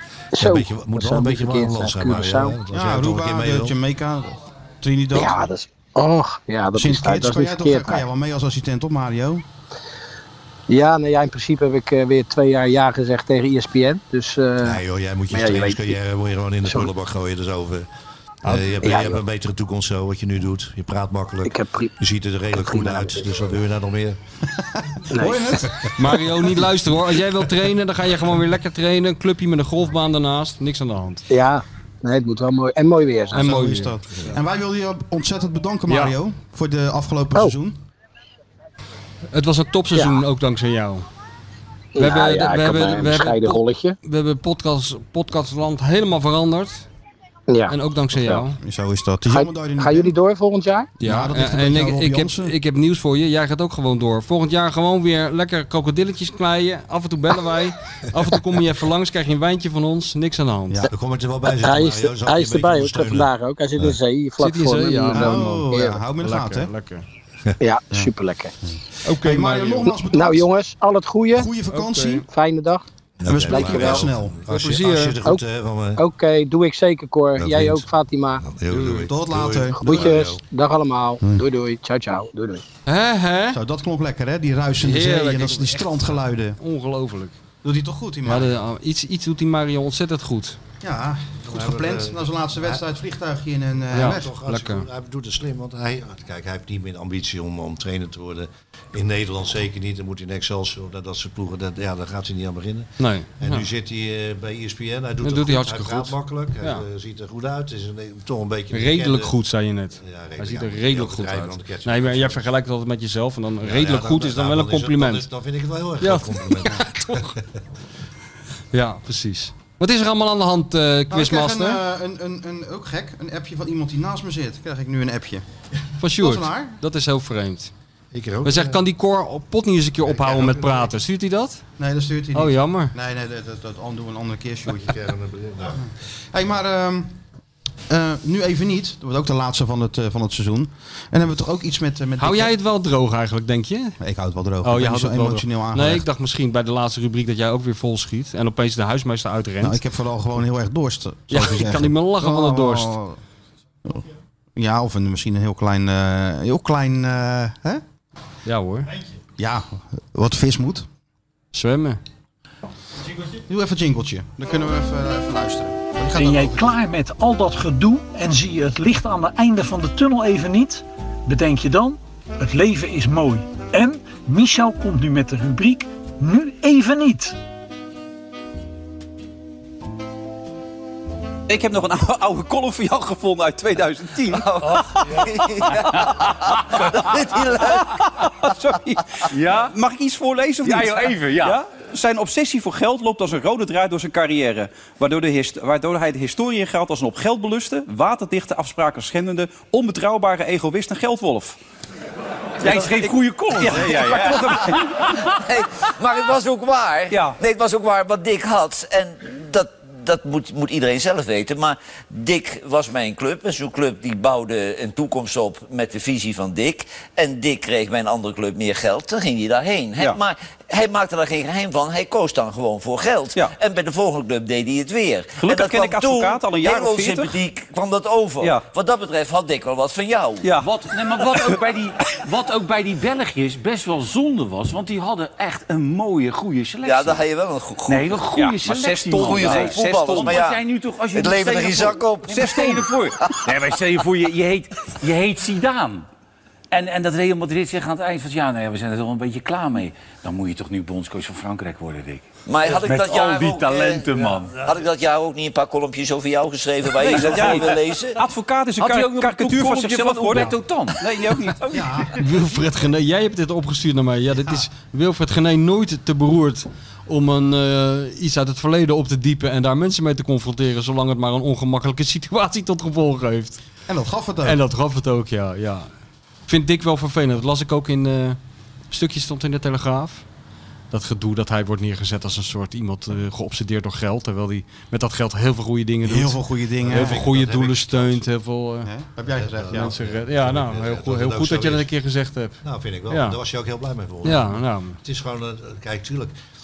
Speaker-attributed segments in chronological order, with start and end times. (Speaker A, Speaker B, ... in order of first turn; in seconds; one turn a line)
Speaker A: 0.3-2.6
Speaker B: 0.4-3.8
Speaker C: 2.7-5.4
Speaker A: 5.1-8.1
Speaker C: 6.8-9.4
Speaker A: 10.7-15.9
Speaker B: 14.6-17.9
Speaker D: 18.4-18.8
Speaker B: 18.4-24.2
Speaker A: 18.8-19.2
Speaker A: 21.4-21.9
Speaker A: 22.5-23.3
Speaker A: 25.1-25.7
Speaker C: 25.1-26.2
Speaker D: 25.9-31.2
Speaker A: 31.3-33.6
Speaker D: 33.3-33.9
Speaker C: 33.3-37.8
Speaker D: 35.9-36.1
Speaker D: 39.3-41.1
Speaker A: 39.9-40.2
Speaker A: 42.0-44.0
Speaker D: 42.0-46.9
Speaker A: 47.5-48.4
Speaker D: 47.7-48.6
Speaker C: 48.6-50.1
Speaker A: 49.3-50.9
Speaker C: 51.0-52.5
Speaker D: 51.0-60.9
Speaker B: 60.9-64.0
Speaker A: 61.5-66.0
Speaker D: 64.4-65.6
Speaker C: 65.1-66.7
Speaker D: 66.2-67.0
Speaker A: 67.6-68.5
Speaker C: 68.7-70.5
Speaker D: 69.0-70.0
Speaker A: 70.1-71.5
Speaker C: 71.3-72.2
Speaker D: 71.7-72.3
Speaker A: 72.2-72.8
Speaker B: 73.2-76.0
Speaker C: 73.3-74.4
Speaker A: 73.5-74.1
Speaker D: 74.5-75.2
Speaker A: 76.0-78.4
Speaker B: 77.4-80.4
Speaker C: 78.8-80.2
Speaker A: 79.8-82.6
Speaker D: 82.9-83.6
Speaker C: 83.5-86.6
Speaker D: 84.8-87.4
Speaker C: 87.6-88.5
Speaker D: 88.2-90.6
Speaker C: 90.8-94.3
Speaker B: 91.4-92.8
Speaker D: 93.9-94.9
Speaker B: 93.9-109.3
Speaker D: 103.0-103.7
Speaker D: 105.2-106.8
Speaker D: 108.7-115.3
Speaker B: 110.0-112.5
Speaker B: 113.6-117.4
Speaker D: 116.0-117.3
Speaker D: 118.7-121.8
Speaker C: 121.1-125.4
Speaker D: 126.0-127.7
Speaker C: 126.2-126.8
Speaker B: 128.1-128.8
Speaker D: 128.4-131.6
Speaker B: 130.0-130.9
Speaker C: 131.8-135.0
Speaker D: 132.3-132.9
Speaker B: 134.7-135.8
Speaker C: 135.7-137.1
Speaker C: 137.9-142.5
Speaker D: 142.2-144.0
Speaker C: 144.0-146.1
Speaker D: 144.6-149.8
Speaker C: 149.6-153.2
Speaker D: 151.3-153.0
Speaker C: 154.6-157.8
Speaker D: 158.4-158.9
Speaker C: 159.4-160.9
Speaker D: 161.5-162.0
Speaker C: 163.5-166.8
Speaker E: 166.2-177.4
Speaker F: 181.5-189.0
Speaker G: 185.4-185.8
Speaker G: 187.1-187.6
Speaker H: 189.3-189.7
Speaker F: 189.6-201.6
Speaker H: 190.6-191.6
Speaker F: 202.6-205.2
Speaker H: 202.6-204.7
Speaker G: 203.9-204.5
Speaker G: 205.4-230.5
Speaker F: 207.1-207.4
Speaker F: 225.4-227.4
Speaker F: 230.4-231.5
Speaker H: 230.6-237.2
Speaker G: 236.8-238.2
Speaker H: 237.9-246.1
Speaker F: 238.4-240.5
Speaker G: 238.9-240.6
Speaker G: 241.1-242.8
Speaker F: 242.3-242.9
Speaker H: 246.7-254.6
Speaker G: 252.5-258.2
Speaker F: 257.0-262.0
Speaker H: 257.0-257.7
Speaker H: 258.8-261.3
Speaker C: 261.7-262.1
Speaker D: 262.2-273.6
Speaker C: 273.9-274.6
Speaker D: 274.4-275.9
Speaker D: 276.5-278.4
Speaker D: 278.9-280.2
Speaker D: 280.9-288.9
Speaker C: 286.1-287.3
Speaker B: 286.8-288.3
Speaker C: 288.9-289.9
Speaker B: 289.3-291.9
Speaker D: 289.7-293.4
Speaker B: 292.6-296.3
Speaker D: 294.2-295.0